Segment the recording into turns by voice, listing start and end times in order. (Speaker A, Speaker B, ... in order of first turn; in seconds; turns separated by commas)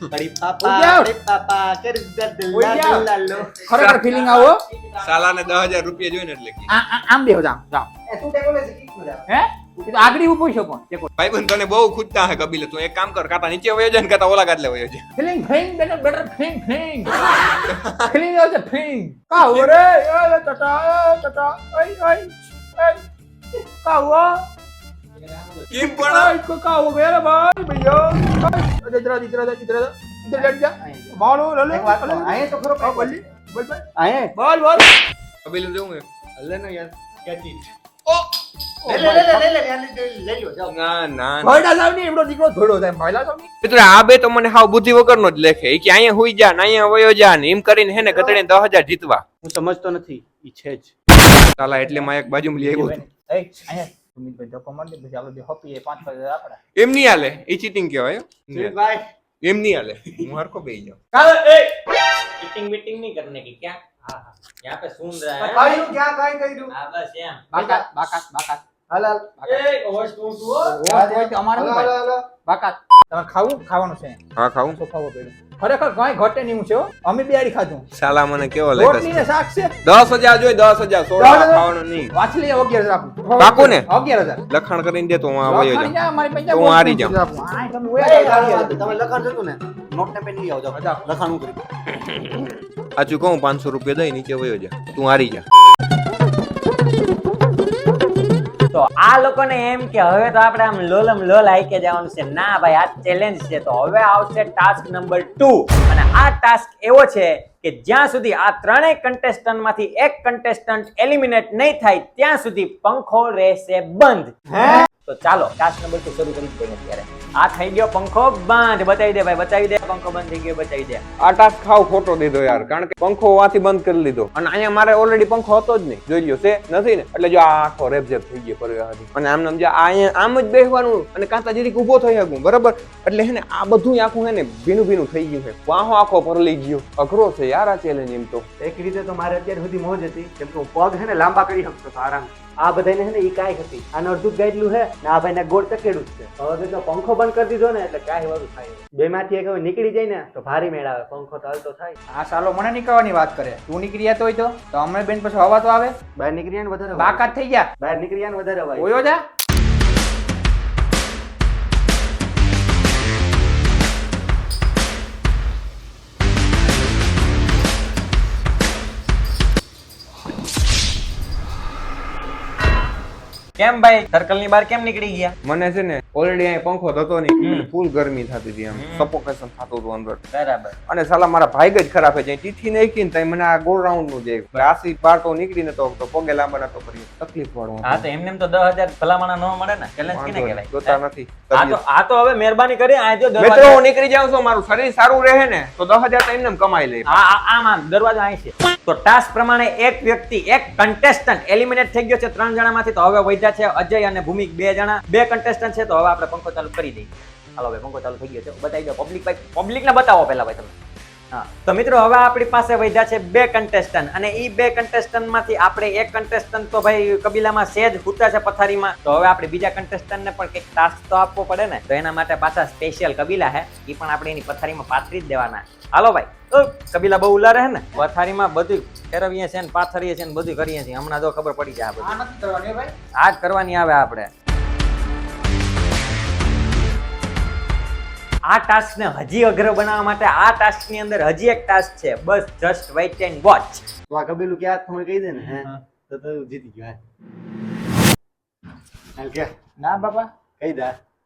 Speaker A: 0.1-3.9, Speaker B: 0.7-1.1, Speaker B: 2.5-3.1, Speaker C: 3.7-6.7, Speaker B: 3.7-4.6, Speaker B: 6.7-7.9, Speaker A: 8.1-9.3, Speaker B: 9.3-11.1, Speaker C: 11.2-15.1, Speaker B: 15.2-17.1, Speaker C: 17.7-18.1, Speaker B: 18.1-23.0, Speaker C: 19.5-19.8, Speaker B: 23.8-24.4, Speaker C: 25.7-26.4, Speaker B: 25.9-33.8, Speaker A: 30.4-33.2, Speaker A: 34.0-34.3, Speaker B: 34.4-34.9, Speaker C: 35.5-36.0, Speaker A: 36.4-37.7, Speaker A: 38.9-40.7, Speaker C: 40.7-41.6, Speaker B: 41.4-43.5, Speaker C: 43.6-49.2, Speaker A: 48.0-48.4, Speaker A: 49.4-50.9, Speaker C: 51.6-53.0, Speaker B: 52.7-56.6, Speaker C: 56.8-58.7, Speaker A: 58.5-59.1, Speaker C: 59.4-61.0, Speaker D: 61.1-61.8, Speaker D: 62.4-63.8, Speaker A: 64.1-64.3, Speaker D: 64.6-65.8, Speaker A: 65.4-66.7, Speaker D: 66.7-67.5, Speaker B: 67.5-68.6, Speaker A: 67.5-67.8, Speaker A: 68.9-69.5, Speaker D: 69.5-70.8, Speaker B: 70.6-74.2, Speaker A: 70.8-72.3, Speaker C: 74.4-74.8, Speaker B: 74.8-77.9, Speaker C: 77.9-79.3, Speaker B: 78.8-79.7, Speaker C: 79.8-82.1, Speaker B: 81.2-84.4, Speaker C: 83.4-84.0, Speaker C: 84.5-85.9, Speaker B: 85.5-88.8, Speaker C: 86.5-87.2, Speaker A: 88.0-91.6, Speaker B: 90.7-91.0, Speaker C: 92.0-95.4, Speaker D: 98.7-114.3, Speaker A: 114.5-114.9, Speaker D: 115.1-121.0, Speaker C: 121.2-138.5, Speaker A: 138.6-152.0, Speaker B: 152.1-156.0, Speaker A: 156.2-159.0, Speaker B: 157.0-157.7, Speaker B: 158.8-159.2, Speaker D: 173.6-175.3, Speaker C: 175.4-180.2, Speaker D: 177.4-177.7, Speaker D: 178.7-179.1, Speaker D: 180.3-180.8, Speaker C: 180.9-188.1, Speaker D: 187.8-191.0, Speaker C: 190.1-191.8, Speaker D: 191.5-193.8, Speaker C: 193.4-197.2, Speaker D: 197.1-210.7, Speaker D: 211.3-232.2, Speaker B: 232.0-232.9, Speaker D: 233.2-234.3, Speaker D: 238.5-243.9, Speaker A: 244.1-247.0, Speaker A: 249.2-249.5, Speaker B: 249.8-250.3, Speaker A: 250.6-251.0